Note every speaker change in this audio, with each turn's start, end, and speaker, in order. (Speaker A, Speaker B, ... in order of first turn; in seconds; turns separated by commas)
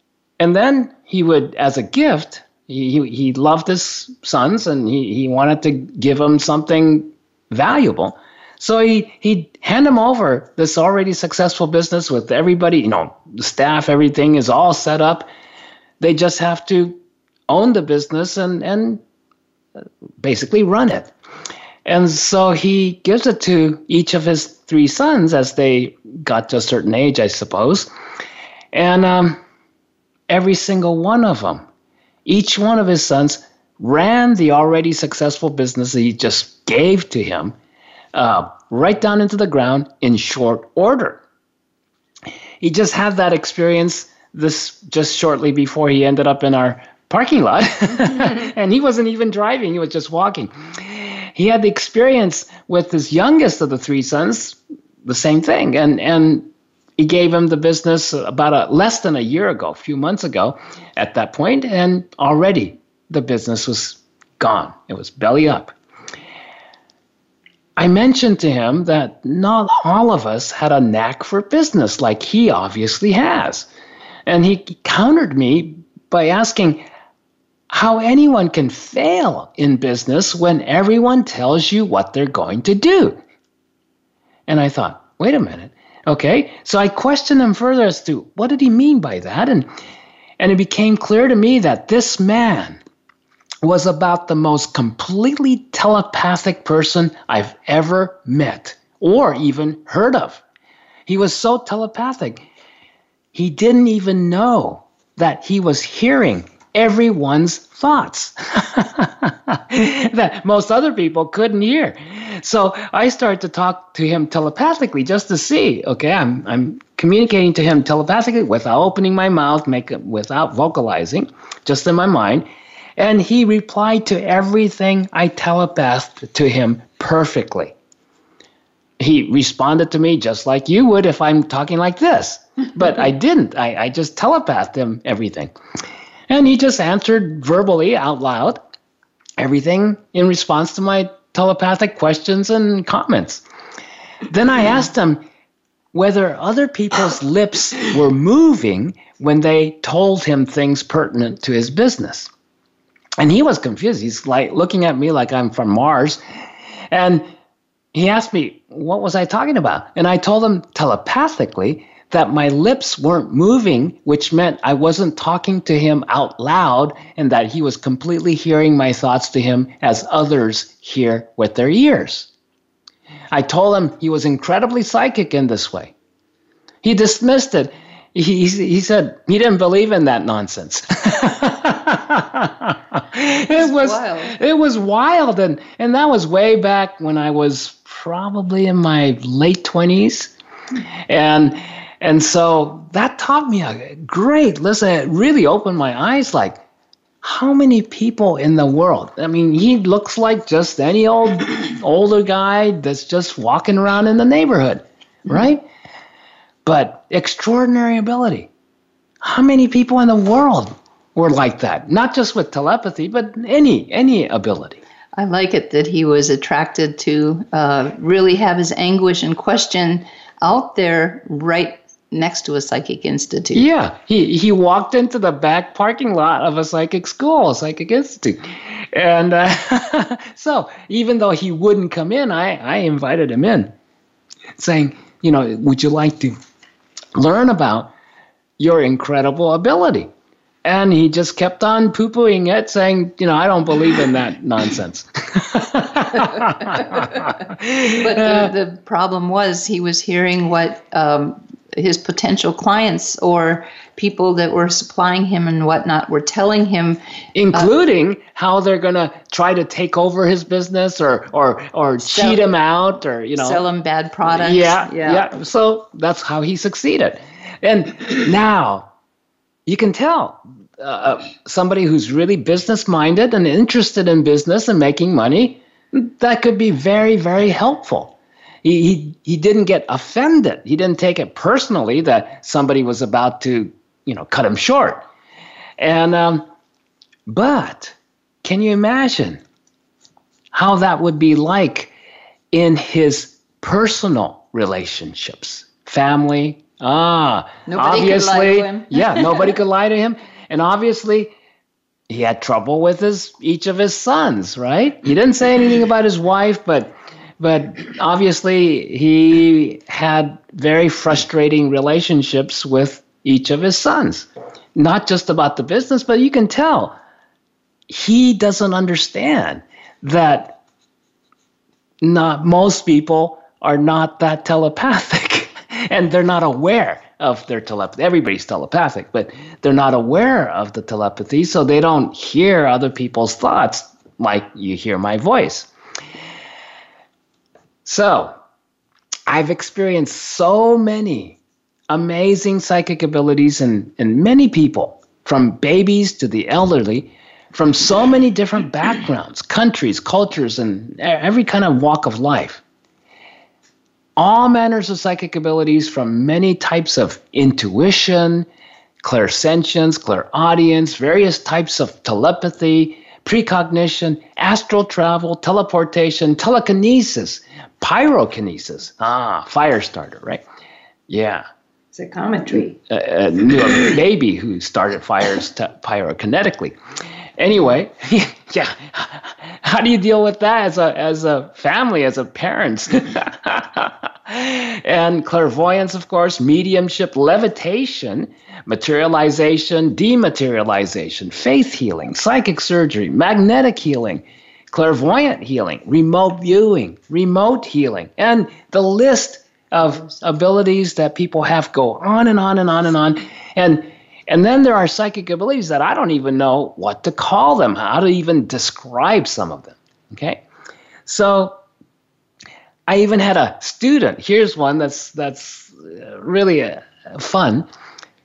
Speaker A: 0.4-15.3, Speaker A: 16.0-19.0, Speaker A: 20.2-21.1, Speaker A: 21.8-27.9, Speaker A: 28.7-29.4, Speaker A: 30.3-31.6, Speaker A: 32.2-37.5, Speaker A: 38.1-41.2, Speaker A: 42.6-65.7, Speaker A: 67.8-73.7, Speaker A: 74.2-76.8, Speaker A: 77.7-83.2, Speaker A: 84.5-89.7, Speaker A: 90.4-92.8, Speaker A: 93.6-100.4, Speaker A: 101.0-102.4, Speaker A: 103.3-127.7, Speaker A: 129.0-135.5, Speaker A: 136.3-138.6, Speaker A: 139.4-143.4, Speaker A: 144.2-145.2, Speaker A: 145.9-152.3, Speaker A: 153.2-156.2, Speaker A: 156.9-157.3, Speaker A: 157.9-172.3, Speaker A: 173.3-175.9, Speaker A: 176.8-190.3, Speaker B: 183.5-184.4, Speaker A: 191.1-196.6, Speaker A: 197.2-205.6, Speaker A: 206.6-208.5, Speaker A: 209.2-214.8, Speaker B: 215.2-223.7, Speaker A: 223.5-233.7, Speaker A: 234.6-236.4, Speaker A: 237.1-237.9, Speaker A: 238.6-240.1, Speaker A: 240.6-248.5, Speaker B: 247.9-257.0, Speaker A: 257.3-263.6, Speaker B: 262.0-262.4, Speaker B: 263.4-265.2, Speaker A: 264.2-268.9, Speaker A: 269.6-285.0, Speaker A: 285.8-286.5, Speaker A: 287.3-289.4, Speaker A: 290.5-291.9, Speaker A: 292.5-301.3, Speaker B: 297.7-299.5, Speaker A: 302.1-317.0, Speaker A: 317.9-320.6, Speaker A: 322.0-335.7, Speaker A: 337.8-338.3, Speaker A: 339.3-341.4, Speaker A: 341.9-352.6, Speaker A: 354.2-358.5, Speaker A: 359.0-370.4, Speaker A: 371.1-371.4, Speaker B: 371.9-372.8, Speaker A: 372.9-376.8, Speaker A: 377.4-410.4, Speaker B: 399.9-400.2, Speaker A: 411.1-411.6, Speaker A: 412.9-417.7